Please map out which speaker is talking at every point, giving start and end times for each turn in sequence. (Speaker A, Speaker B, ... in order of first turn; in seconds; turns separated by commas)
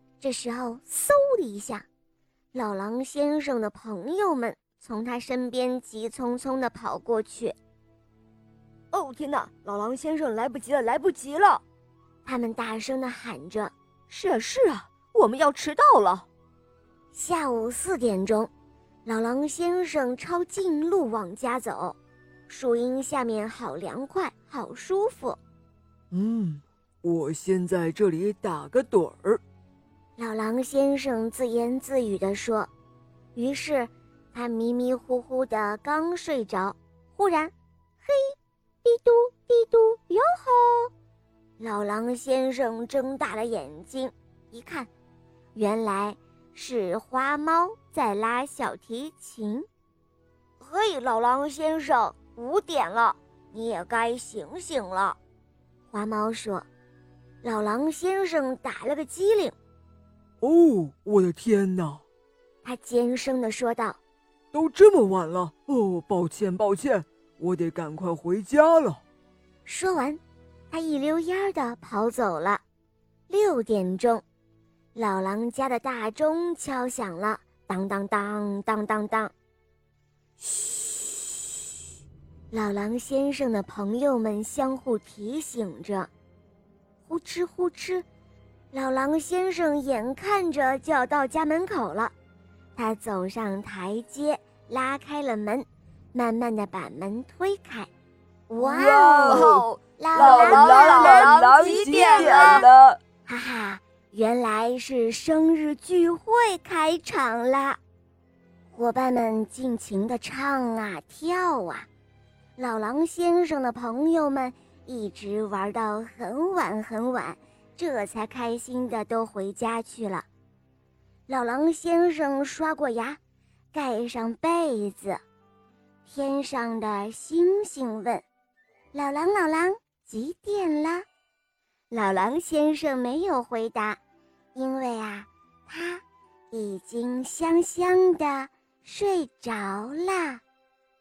Speaker A: 0.2-1.8, Speaker A: 2.5-7.5, Speaker B: 8.9-11.6, Speaker A: 12.2-13.7, Speaker B: 14.1-16.2, Speaker A: 17.1-18.5, Speaker A: 19.1-22.0, Speaker A: 22.5-25.4, Speaker C: 26.1-29.4, Speaker A: 30.2-32.7, Speaker A: 33.3-40.9, Speaker A: 41.6-44.9, Speaker A: 45.5-49.7, Speaker A: 50.6-55.2, Speaker A: 55.9-56.6, Speaker A: 57.4-59.5, Speaker C: 60.4-62.0, Speaker A: 62.6-64.0, Speaker C: 64.5-69.0, Speaker A: 69.7-72.6, Speaker A: 73.3-74.2, Speaker A: 74.9-79.3, Speaker A: 82.5-86.1, Speaker A: 87.0-88.0, Speaker A: 88.7-92.1, Speaker A: 92.8-97.9, Speaker A: 98.5-102.7, Speaker C: 98.6-103.0, Speaker B: 99.1-102.7, Speaker A: 103.2-107.8, Speaker A: 108.7-111.9, Speaker A: 112.6-120.3, Speaker A: 121.3-123.2, Speaker A: 123.7-125.2, Speaker A: 126.0-128.2, Speaker A: 128.9-131.0, Speaker A: 131.9-134.0, Speaker A: 134.5-140.4